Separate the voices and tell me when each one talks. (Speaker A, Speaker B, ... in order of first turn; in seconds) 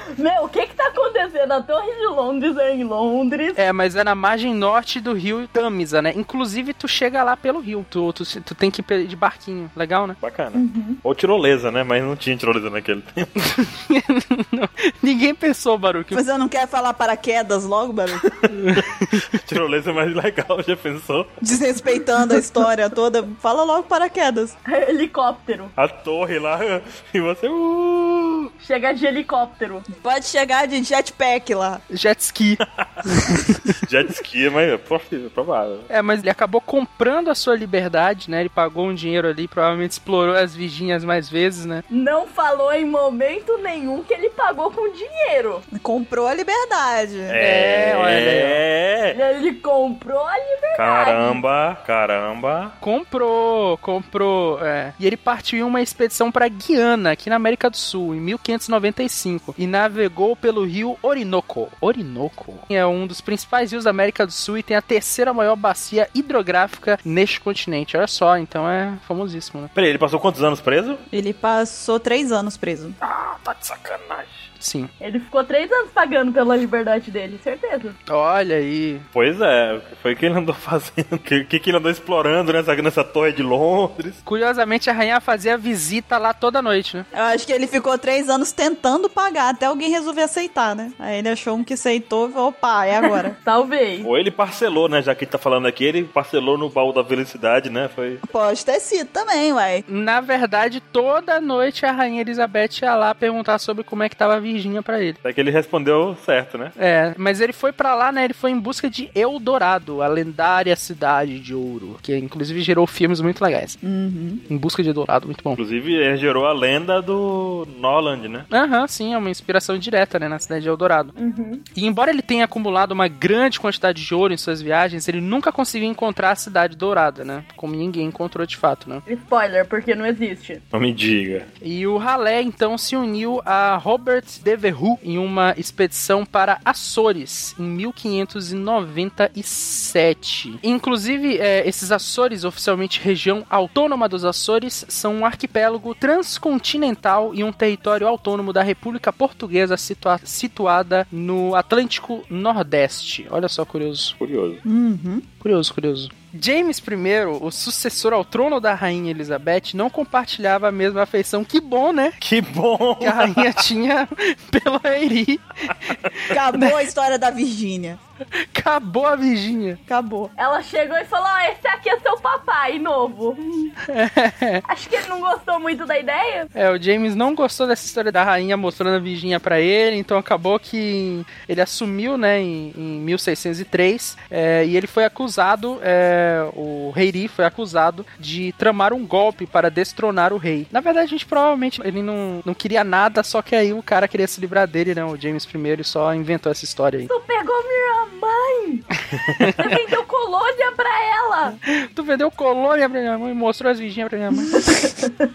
Speaker A: 0.2-3.6, 24.7-25.7, 28.6-29.9, 41.9-45.6, 49.1-51.4, 75.0-78.0, 93.1-94.1, 121.2-121.7, 129.1-130.6, 170.4-173.8, 174.7-176.5, 197.1-198.9, 199.6-201.6, 204.6-205.2
Speaker B: 3.6-10.2, 13.4-16.2, 18.6-19.2, 31.9-33.8, 35.9-41.8, 47.4-48.6, 52.8-69.7, 74.6-74.9, 78.1-79.0, 84.3-87.1, 99.9-105.2, 106.8-113.8, 114.5-115.6, 118.5-121.1, 121.8-129.0, 131.6-154.2, 155.4-162.2, 163.0-166.8, 168.5-169.8, 173.9-174.6, 176.6-197.1, 199.4-199.8, 201.7-204.9
Speaker C: 10.2-13.3, 19.3-21.3, 25.8-28.5, 32.7-33.1, 33.8-35.9, 47.3-49.2, 50.7-52.8, 69.8-71.0, 73.0-74.5, 79.1-84.2, 94.0-98.2, 105.2-106.7, 115.6-118.5, 130.7-131.5, 154.2-154.6, 162.2-163.6, 199.3-199.6
Speaker D: 10.6-11.0, 16.1-18.4, 21.4-24.5, 30.0-31.8, 45.7-47.4, 71.1-73.0, 87.1-93.3, 98.3-99.8, 113.8-114.4, 154.7-155.2, 166.3-168.0, 169.9-170.3